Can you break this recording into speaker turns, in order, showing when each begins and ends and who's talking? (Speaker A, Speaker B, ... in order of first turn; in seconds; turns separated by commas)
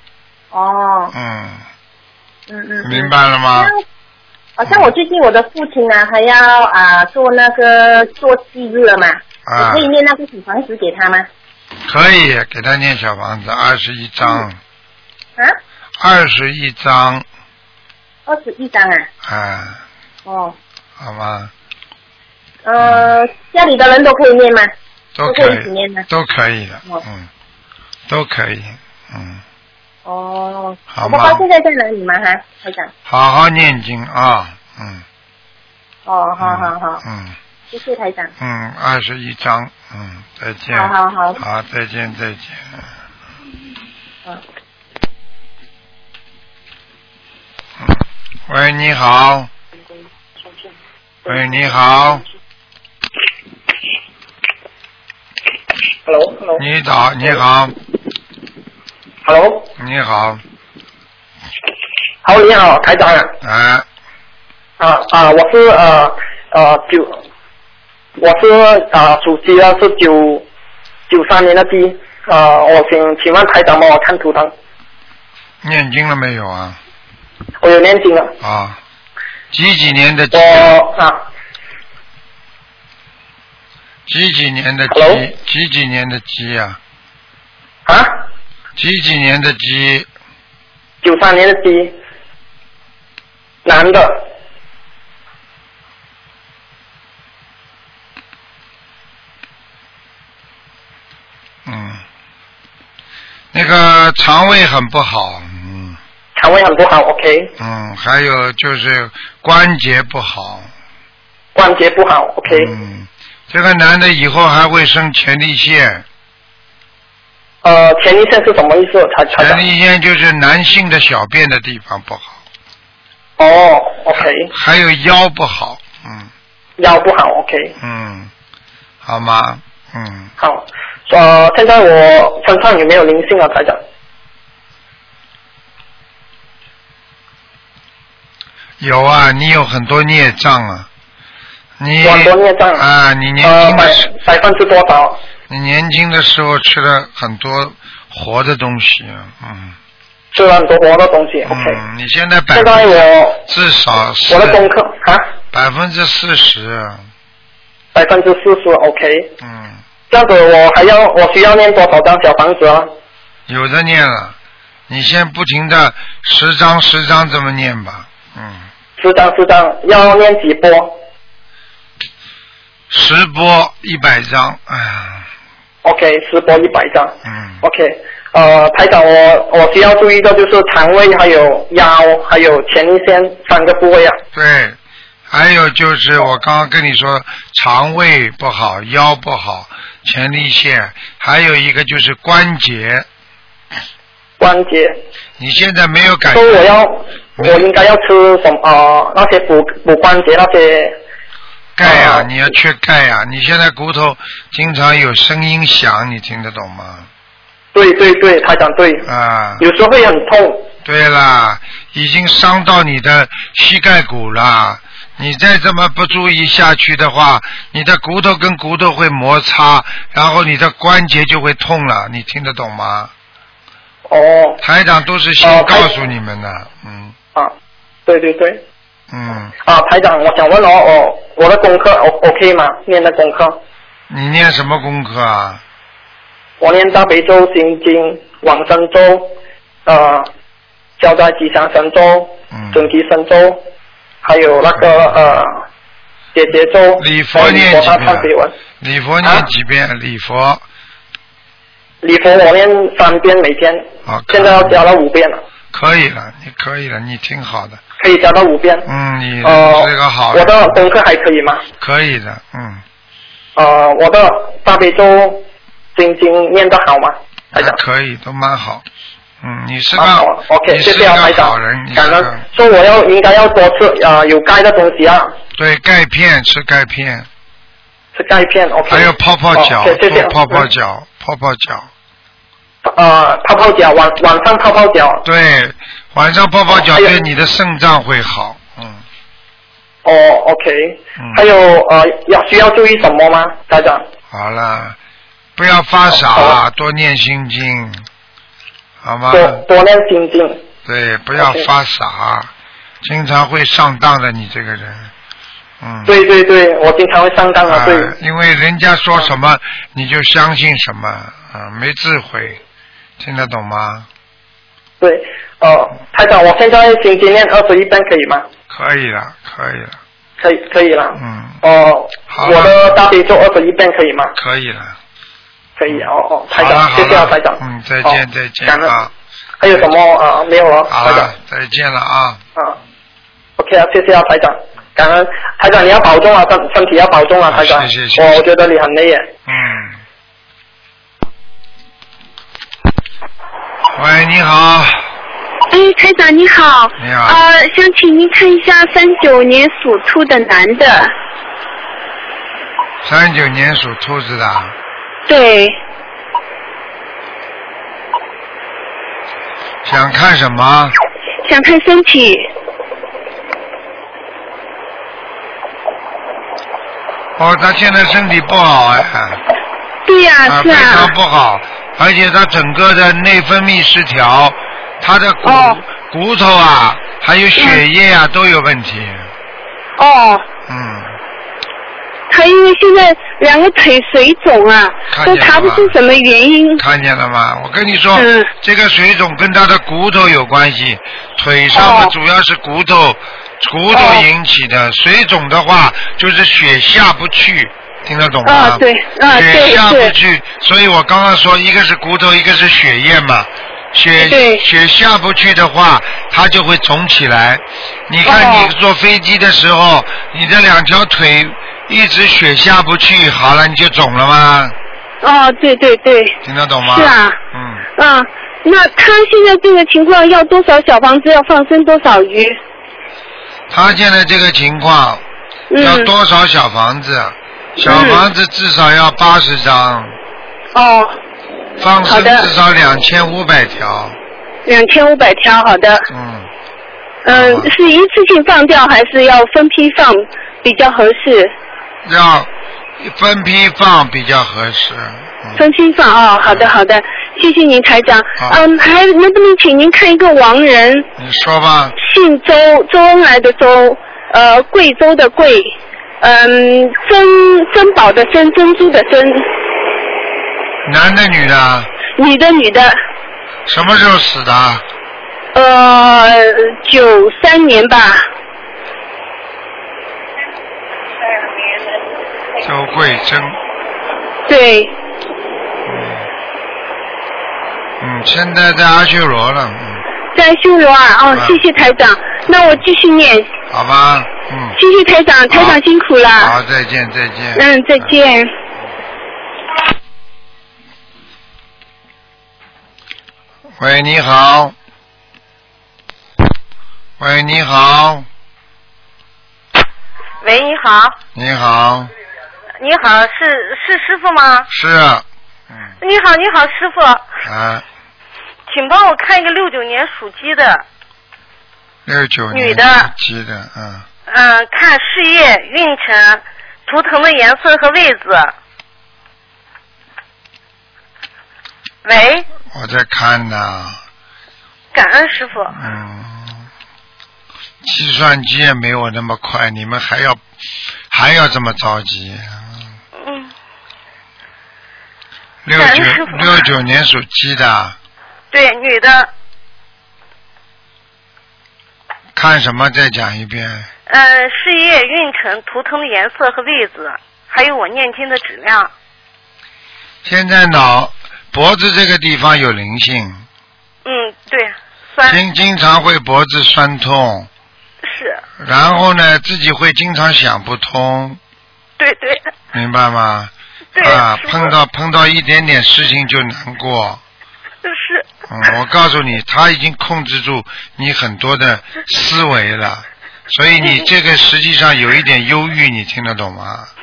Speaker A: 0.5-1.1, Speaker B: 1.1-1.6, Speaker A: 2.5-3.8, Speaker B: 2.8-3.7, Speaker A: 4.6-11.3, Speaker B: 4.7-4.9, Speaker B: 9.4-9.9, Speaker B: 11.9-14.6, Speaker B: 16.0-17.2, Speaker A: 18.3-19.1, Speaker B: 19.2-19.8, Speaker A: 20.2-20.5, Speaker B: 21.0-21.5, Speaker A: 22.6-24.7, Speaker B: 22.8-23.1, Speaker B: 25.1-27.3, Speaker A: 25.2-26.1, Speaker B: 28.1-29.4, Speaker A: 30.1-32.9, Speaker B: 30.9-31.4, Speaker B: 33.0-35.0, Speaker A: 36.1-37.0, Speaker B: 36.4-37.4, Speaker A: 37.7-38.3, Speaker B: 38.4-42.9, Speaker A: 40.7-41.4, Speaker B: 47.8-49.5, Speaker B: 51.2-52.2, Speaker C: 56.0-56.6, Speaker B: 56.5-57.7, Speaker C: 59.2-59.7, Speaker B: 59.8-60.4, Speaker C: 62.2-63.3, Speaker B: 63.4-63.9, Speaker C: 64.8-67.2, Speaker C: 68.2-70.5, Speaker C: 71.1-74.5, Speaker B: 75.6-76.8, Speaker C: 77.6-78.3, Speaker B: 78.4-78.8, Speaker B: 79.5-80.7, Speaker C: 80.3-81.2, Speaker B: 84.1-86.8, Speaker C: 84.9-85.2, Speaker C: 87.8-88.3, Speaker B: 88.8-90.1, Speaker C: 91.0-92.0, Speaker C: 93.6-94.3, Speaker B: 101.7-102.0, Speaker B: 103.5-106.0, Speaker C: 106.3-107.5, Speaker B: 107.6-110.7, Speaker C: 111.5-112.7, Speaker B: 112.5-116.0, Speaker C: 117.6-119.6, Speaker B: 119.3-122.4, Speaker C: 123.4-124.5, Speaker B: 124.2-126.3, Speaker C: 126.8-127.8, Speaker B: 127.8-128.3, Speaker B: 129.0-130.3, Speaker C: 130.4-133.8, Speaker B: 138.8-140.9, Speaker B: 141.8-144.1, Speaker C: 142.0-142.8, Speaker C: 143.4-145.2, Speaker B: 145.5-149.8, Speaker C: 150.3-151.8, Speaker B: 151.4-152.9, Speaker C: 152.5-153.4, Speaker B: 153.4-154.6, Speaker C: 154.3-155.3, Speaker B: 155.5-157.1, Speaker C: 157.9-159.3, Speaker B: 159.4-159.8, Speaker C: 160.1-162.9, Speaker B: 163.5-164.3, Speaker B: 164.9-168.7, Speaker C: 169.0-171.0, Speaker B: 172.9-175.3, Speaker C: 175.8-184.2, Speaker B: 177.2-177.6, Speaker B: 184.3-184.8, Speaker B: 185.3-193.1, Speaker C: 194.4-195.0, Speaker B: 195.4-196.7, Speaker C: 196.3-201.0, Speaker B: 197.4-197.6, Speaker B: 201.8-207.1, Speaker C: 201.8-202.4, Speaker C: 207.7-209.1, Speaker B: 209.0-209.7, Speaker C: 209.6-210.7, Speaker B: 210.8-223.1, Speaker C: 224.1-224.6, Speaker B: 224.6-227.1, Speaker C: 225.4-225.9, Speaker C: 228.1-228.6, Speaker B: 229.1-229.5, Speaker C: 229.6-233.6, Speaker B: 234.1-235.6, Speaker C: 236.6-240.3, Speaker C: 241.0-243.7, Speaker B: 242.5-242.9, Speaker C: 244.2-245.6, Speaker B: 244.7-245.1, Speaker C: 246.3-248.5, Speaker B: 247.0-250.6, Speaker C: 252.0-255.4, Speaker B: 254.0-254.8, Speaker B: 255.7-257.8, Speaker C: 258.0-258.9, Speaker B: 258.8-260.8, Speaker C: 259.4-261.6, Speaker B: 261.8-262.8, Speaker C: 263.6-267.8, Speaker B: 267.5-268.8, Speaker B: 269.4-272.4, Speaker C: 269.9-275.4, Speaker B: 275.5-277.3, Speaker C: 278.1-280.7, Speaker B: 278.9-281.9, Speaker C: 282.9-285.2, Speaker B: 285.2-289.0, Speaker C: 286.7-287.2, Speaker C: 290.0-294.1, Speaker B: 291.2-291.4, Speaker B: 294.3-295.0, Speaker B: 295.6-298.1, Speaker C: 296.1-296.6, Speaker B: 299.0-299.6, Speaker C: 299.3-300.6, Speaker B: 300.8-302.5, Speaker C: 301.4-301.7, Speaker B: 303.0-305.1, Speaker B: 305.8-306.2, Speaker C: 306.1-308.1, Speaker B: 307.7-312.6, Speaker B: 313.2-314.1, Speaker C: 315.0-318.5, Speaker B: 318.7-320.0, Speaker C: 320.4-324.3, Speaker B: 321.1-321.6, Speaker B: 322.3-323.0, Speaker B: 324.4-325.0, Speaker C: 325.8-329.0, Speaker B: 325.9-329.1, Speaker C: 329.6-331.3, Speaker B: 330.9-332.4, Speaker C: 333.6-339.3, Speaker B: 337.5-338.4, Speaker B: 339.5-340.0, Speaker B: 343.9-345.1, Speaker D: 345.7-351.1, Speaker B: 347.0-347.4, Speaker B: 353.0-354.7, Speaker D: 355.3-355.8, Speaker B: 359.8-361.0, Speaker D: 361.4-362.5, Speaker B: 367.4-369.4, Speaker D: 370.1-371.1, Speaker B: 370.4-379.3, Speaker D: 375.4-375.8, Speaker D: 377.6-377.8, Speaker D: 380.0-380.4, Speaker B: 380.7-381.2, Speaker D: 382.3-386.8, Speaker B: 385.1-385.9, Speaker B: 386.8-414.7, Speaker D: 388.1-388.5, Speaker D: 391.7-392.1, Speaker D: 393.9-394.3, Speaker D: 398.4-400.1, Speaker D: 404.2-404.6, Speaker D: 408.2-408.7, Speaker D: 415.2-417.4, Speaker B: 416.4-417.9, Speaker D: 418.0-422.6, Speaker B: 423.7-425.2, Speaker D: 425.7-426.1, Speaker B: 425.8-430.2, Speaker D: 427.8-428.3, Speaker D: 430.7-431.2, Speaker B: 431.8-434.2, Speaker D: 432.0-432.5, Speaker D: 434.6-436.1, Speaker B: 436.1-436.5, Speaker D: 437.2-441.5, Speaker B: 437.3-437.7, Speaker B: 442.0-445.7, Speaker D: 445.6-451.1, Speaker B: 446.4-446.8, Speaker B: 448.4-448.6, Speaker B: 451.2-452.0, Speaker D: 452.0-459.5, Speaker B: 460.8-461.9, Speaker D: 462.1-463.0, Speaker B: 463.6-464.8, Speaker D: 465.5-468.3, Speaker B: 472.6-473.6, Speaker D: 474.5-474.9, Speaker B: 475.9-476.3, Speaker B: 478.0-480.0, Speaker D: 480.3-483.6, Speaker B: 481.3-481.6, Speaker B: 483.7-484.8, Speaker D: 484.8-486.5, Speaker B: 485.5-485.8, Speaker B: 486.3-488.2, Speaker D: 487.5-488.5, Speaker B: 493.8-494.7, Speaker B: 497.2-498.3, Speaker E: 500.4-501.2, Speaker B: 501.3-502.1, Speaker E: 502.8-504.7, Speaker B: 504.7-505.9, Speaker E: 506.0-507.3, Speaker B: 507.4-507.8, Speaker E: 508.7-510.8, Speaker B: 512.0-514.0, Speaker E: 512.5-513.1, Speaker E: 514.3-518.5, Speaker E: 522.0-522.5, Speaker B: 522.7-524.0, Speaker E: 524.9-525.8, Speaker B: 525.7-526.7, Speaker B: 527.8-530.4, Speaker B: 531.1-532.8, Speaker E: 533.2-533.5, Speaker B: 535.6-538.0, Speaker E: 535.8-536.7, Speaker E: 538.5-539.3, Speaker B: 542.3-543.9, Speaker E: 544.1-548.9, Speaker B: 550.2-553.4, Speaker E: 554.0-555.4, Speaker B: 555.2-557.5, Speaker E: 558.0-558.4, Speaker B: 558.6-561.4, Speaker E: 562.0-562.5, Speaker B: 562.7-567.2, Speaker E: 563.9-564.7, Speaker E: 567.8-568.3, Speaker B: 568.5-576.9